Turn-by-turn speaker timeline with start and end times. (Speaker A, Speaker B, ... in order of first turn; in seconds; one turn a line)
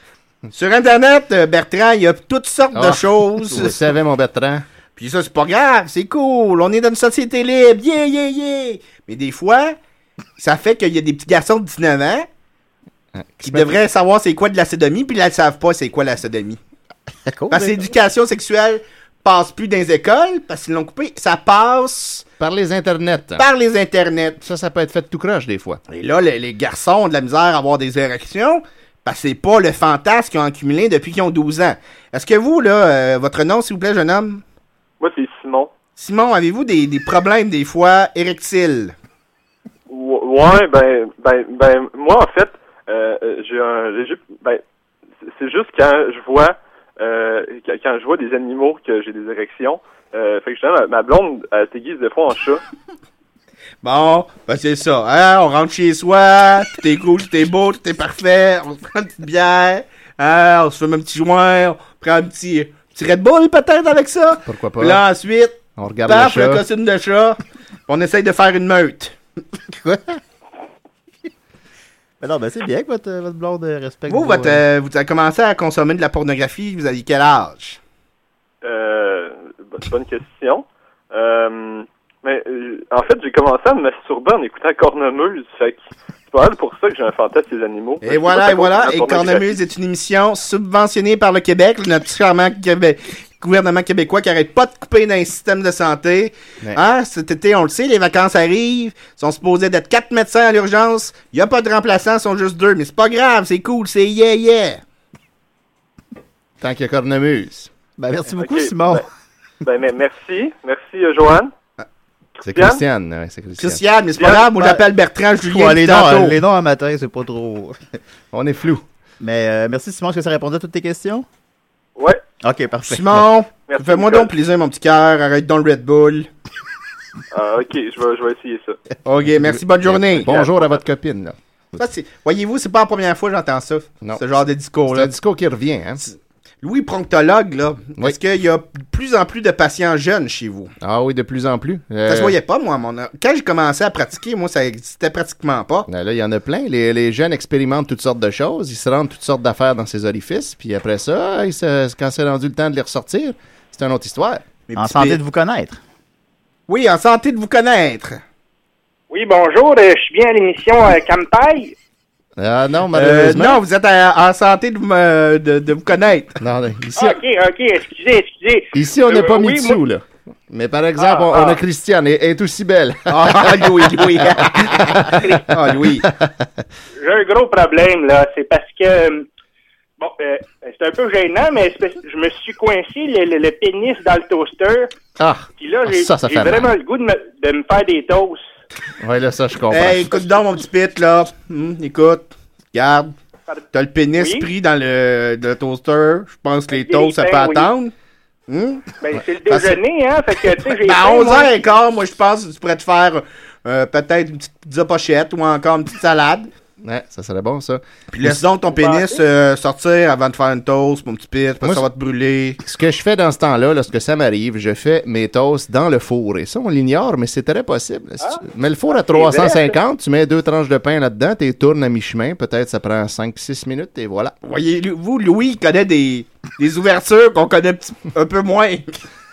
Speaker A: 0.5-3.8
Speaker B: 2.7-4.6
Speaker A: 5.0-9.8
Speaker A: 10.4-12.3
Speaker B: 13.1-13.8
Speaker A: 13.4-16.6
Speaker C: 17.2-17.9
Speaker A: 17.5-22.2
Speaker B: 22.4-23.4
Speaker A: 23.4-24.4
Speaker B: 24.4-25.8
Speaker A: 25.9-34.4
Speaker D: 35.0-35.7
Speaker A: 36.0-38.9
Speaker D: 39.9-44.6
Speaker D: 45.2-52.6
Speaker A: 53.8-69.1
Speaker B: 64.4-65.0
Speaker B: 65.8-66.6
Speaker C: 69.7-70.2
Speaker C: 72.2-74.6
Speaker A: 74.1-77.8
Speaker D: 78.6-89.5
Speaker A: 88.0-104.8
Speaker B: 106.6-107.7
Speaker C: 108.0-109.0
Speaker D: 108.4-109.0
Speaker D: 109.6-111.5
Speaker B: 112.4-113.8
Speaker D: 112.5-112.8
Speaker A: 113.6-116.4
Speaker C: 114.2-114.8
Speaker C: 115.4-117.9
Speaker B: 118.3-118.8
Speaker C: 119.2-121.2
Speaker C: 122.4-123.3
Speaker A: 122.8-126.3
Speaker D: 123.7-124.3
Speaker D: 127.3-128.8
Speaker A: 129.0-130.4
Speaker B: 129.8-131.3
Speaker A: 131.8-135.1
Speaker B: 134.9-136.0
Speaker A: 136.6-140.7
Speaker B: 140.8-142.3
Speaker A: 142.1-145.9
Speaker B: 145.9-154.4
Speaker A: 154.7-155.2
Speaker C: 154.8-155.8
Speaker A: 156.7-158.2
Speaker E: 159.1-161.7
Speaker B: 162.4-163.6
Speaker A: 162.9-166.4
Speaker B: 166.4-167.2
Speaker E: 166.9-169.8
Speaker B: 168.7-175.3
Speaker E: 171.0-171.6
Speaker A: 173.1-176.1
Speaker E: 175.1-175.4
Speaker B: 176.0-176.3
Speaker E: 177.0-179.3
Speaker E: 180.0-184.9
Speaker B: 185.2-186.7
Speaker E: 185.6-188.4
Speaker B: 189.0-190.2
Speaker A: 189.7-193.1
Speaker A: 193.7-197.9
Speaker E: 194.2-194.5
Speaker E: 196.7-197.7
Speaker A: 198.5-198.9
Speaker E: 199.0-201.5
Speaker A: 199.5-199.8
Speaker A: 200.7-206.5
Speaker B: 206.8-208.4
Speaker A: 208.1-212.6
Speaker E: 208.6-209.2
Speaker B: 212.6-224.3
Speaker E: 218.9-219.7
Speaker A: 224.4-229.0